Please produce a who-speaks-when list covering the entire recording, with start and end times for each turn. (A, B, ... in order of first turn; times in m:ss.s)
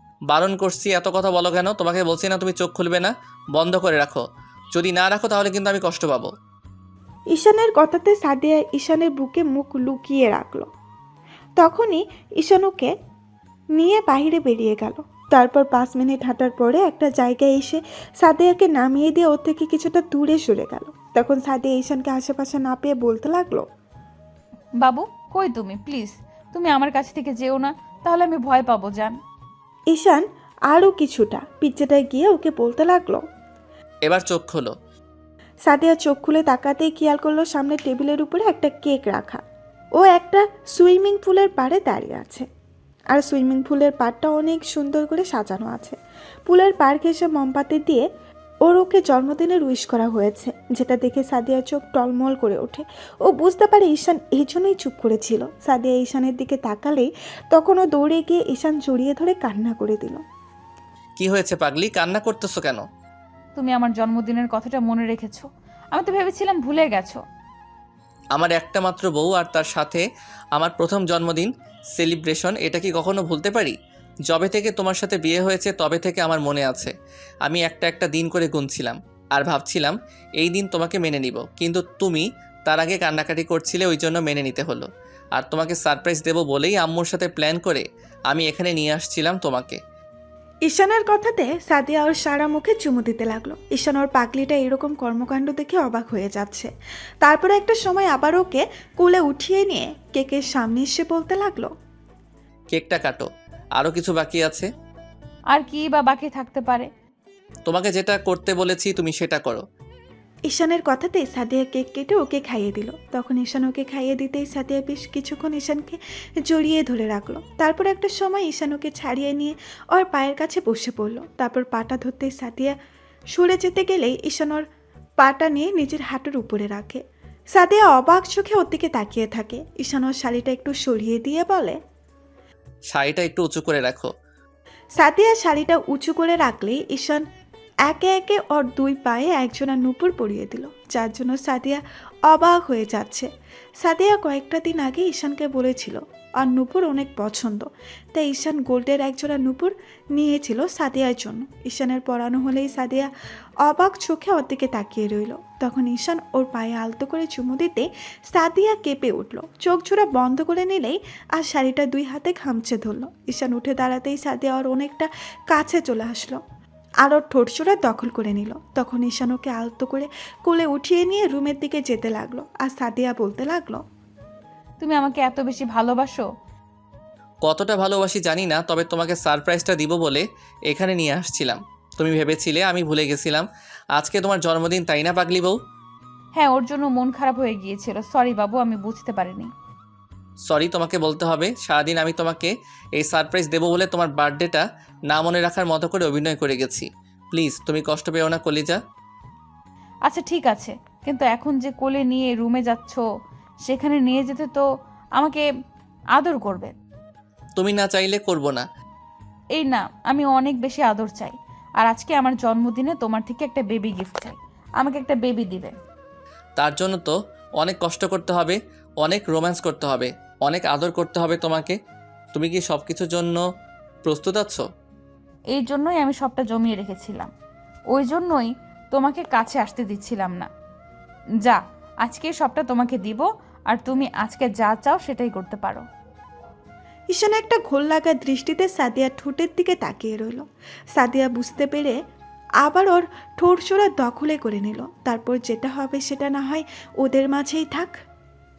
0:00.3-0:06.3 A
0:07.3-0:10.7 B
0:11.6-0:12.9 B
0:13.8-0:23.6 B
0:24.8-0:29.2 C
0:29.9-0:33.2 B
0:34.0-0:34.7 A
0:35.7-0:39.4 B
0:40.0-0:42.4 B
0:43.1-0:46.0 B
0:46.5-0:48.0 B
0:48.6-1:00.2 B
1:01.2-1:02.8 A
1:03.6-1:07.2 C
1:08.3-1:13.7 A
1:14.3-1:16.9 A
1:17.4-1:29.8 A
1:30.7-1:36.7 B
1:37.2-1:41.7 B
1:42.7-1:44.7 A
1:45.5-1:46.9 C
1:47.6-1:49.6 A
1:50.5-2:02.7 B
2:03.3-2:04.6 B
2:05.2-2:07.0 B
2:07.5-2:11.8 B
2:12.9-2:14.1 A
2:15.0-2:17.2 B
2:17.9-2:23.3 B
2:23.8-2:33.1 B
2:33.6-2:46.4 B
2:47.0-2:53.8 B
2:54.8-2:56.2 C
2:57.4-3:05.6 A
3:06.4-3:09.5 C
3:10.4-3:18.8 A
3:20.1-3:23.0 C
3:23.6-3:24.6 C
3:25.2-3:25.4 C
3:26.1-3:26.7 C
3:27.6-3:28.6 A
3:29.6-3:35.7 C
3:36.6-3:41.8 A
3:42.3-3:43.4 A
3:44.0-3:44.6 A
3:45.5-3:47.3 C
3:47.9-3:50.5 C
3:51.4-3:55.9 C
3:57.1-4:02.0 B
4:02.6-4:08.0 B